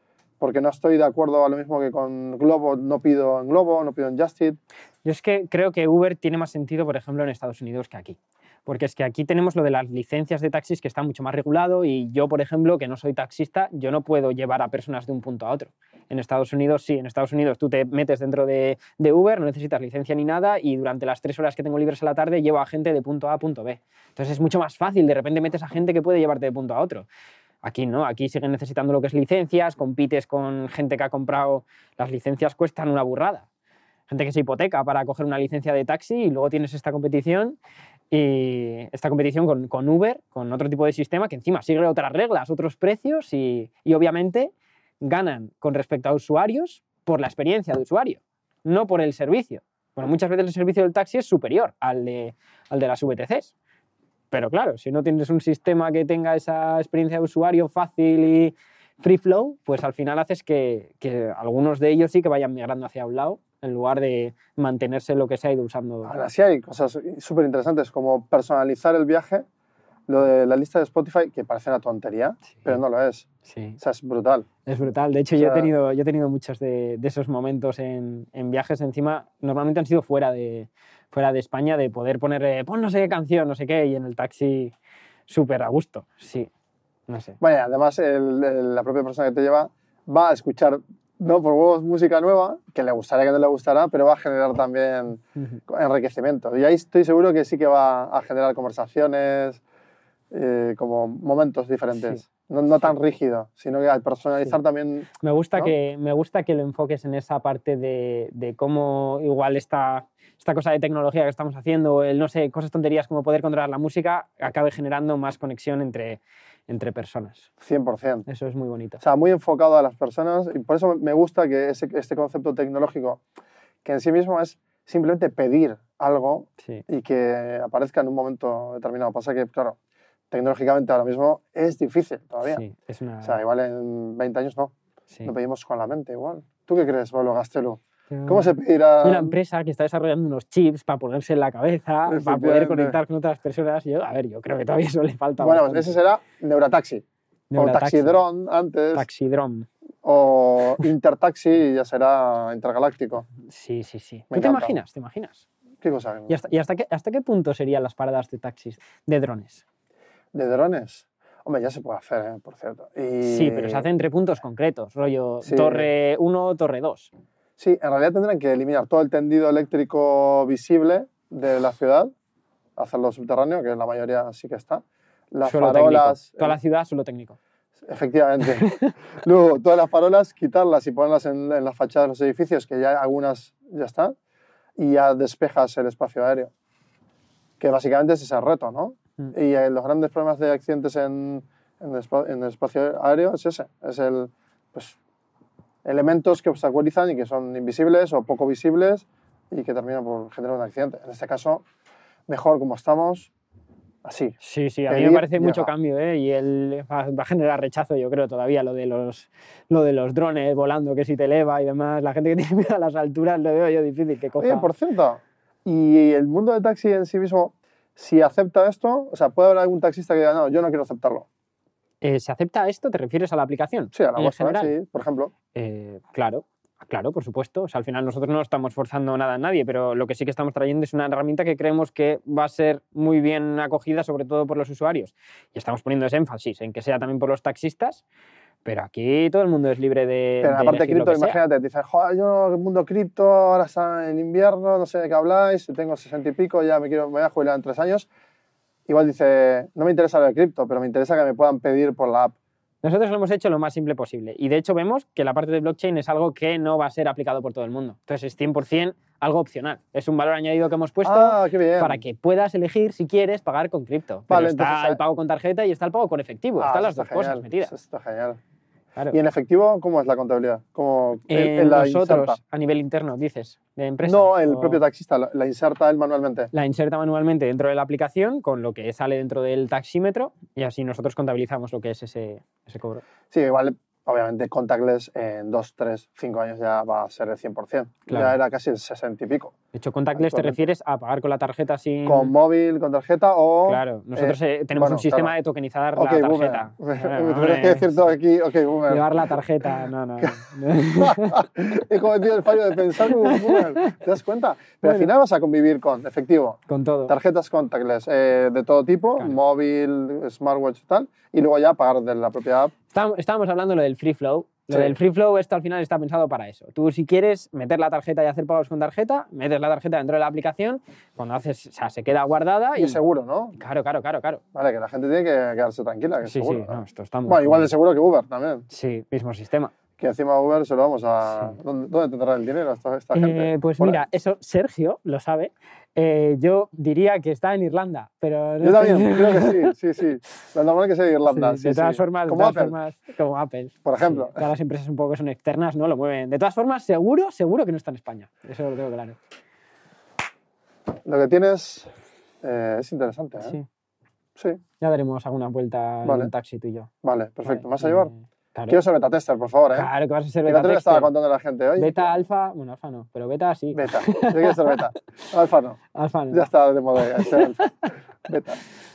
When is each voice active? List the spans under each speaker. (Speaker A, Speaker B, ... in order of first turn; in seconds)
Speaker A: 0.4-4.6, 66.0-69.5, 70.1-73.3, 73.8-74.5, 75.3-75.7, 87.4-99.6, 100.3-105.7, 117.6-118.3, 119.0-123.2, 123.8-129.8, 130.3-132.6, 133.2-134.7, 135.2-139.4, 142.1-143.0, 145.4-147.0, 147.6-149.1, 150.0-153.3, 154.3-154.8, 155.8-156.4, 160.3-163.9, 165.4-165.9, 167.6-172.1, 172.8-176.6, 177.9-184.1, 184.8-186.5, 187.6-195.0, 195.8-201.6, 202.3-203.3, 204.1-204.4, 204.9-205.7, 214.4-221.3, 223.9-225.3, 240.4-248.1, 248.9-252.3, 261.1-262.0, 264.3-265.0, 266.6-268.4, 269.1-272.4, 274.0-276.5, 283.3-289.6, 290.1-290.6, 292.1-295.3, 296.0-299.1, 301.0-312.7, 314.7-315.0, 322.8-323.6, 324.6-328.6, 330.0-334.1, 338.6-342.8, 343.9-344.5, 351.1-351.9, 352.4-353.6, 356.1-356.3, 357.0-358.1, 358.7-359.9, 360.4-362.2, 363.7-365.8, 366.3-367.7, 368.2-368.6
Speaker B: 5.0-27.1, 27.6-33.5, 34.1-37.6, 38.1-53.5, 54.3-66.1, 73.5-73.8, 74.7-84.7, 85.3-86.5, 87.1-87.4, 101.9-103.0, 105.2-117.5, 118.3-119.0, 132.4-133.4, 138.1-146.0, 147.5-148.2, 148.9-149.7, 153.4-155.5, 156.3-159.6, 163.2-167.1, 175.4-177.4, 178.5-178.9, 204.4-214.7, 222.0-224.8, 225.5-238.0, 238.7-241.4, 252.8-267.7, 271.3-274.8, 276.5-283.0, 288.1-288.4, 289.7-292.3, 293.7-298.0, 298.9-301.4, 303.0-303.9, 304.8-305.1, 306.7-307.1, 312.9-323.0, 323.6-324.4, 326.2-327.7, 328.7-329.7, 331.2-331.6, 333.1-339.7, 341.3-349.2, 353.4-353.6, 354.8-356.9, 357.4-358.8, 359.7-361.1, 361.8-364.9, 365.9-366.5, 367.2-367.9